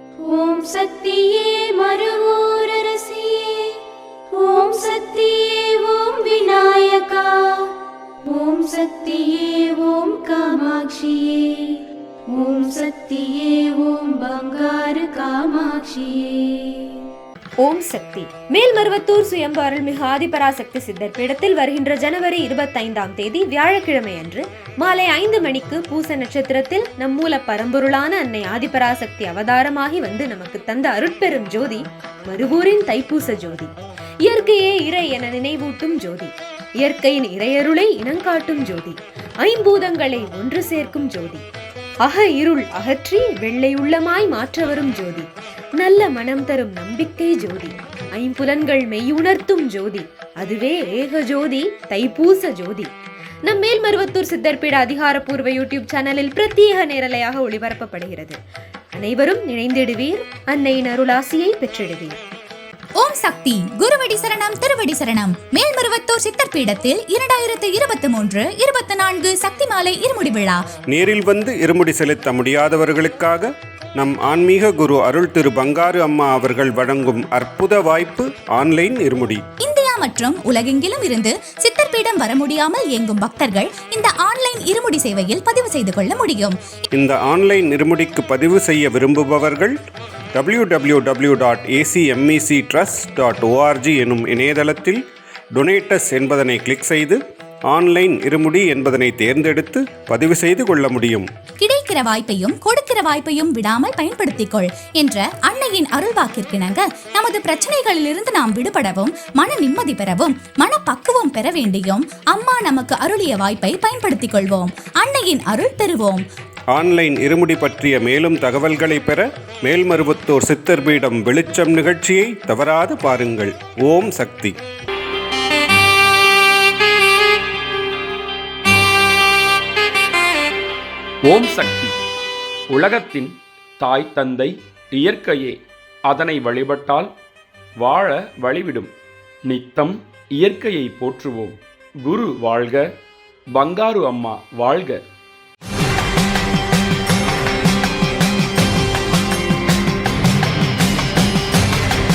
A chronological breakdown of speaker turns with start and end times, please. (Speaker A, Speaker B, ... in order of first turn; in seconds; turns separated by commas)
Speaker A: 0.3-3.8, Speaker A: 4.3-7.7, Speaker A: 8.3-11.8, Speaker A: 12.3-17.0, Speaker B: 17.6-41.5, Speaker B: 42.0-58.4, Speaker B: 59.0-62.2, Speaker C: 63.0-70.7, Speaker D: 70.9-79.4, Speaker C: 79.6-86.6, Speaker D: 86.9-89.7, Speaker D: 90.3-95.0, Speaker D: 95.5-101.3, Speaker C: 101.6-116.2, Speaker D: 116.7-124.5, Speaker E: 131.3-132.0, Speaker E: 132.7-135.6, Speaker E: 136.1-137.1, Speaker E: 137.8-138.9, Speaker E: 139.5-142.8, Speaker E: 143.6-145.0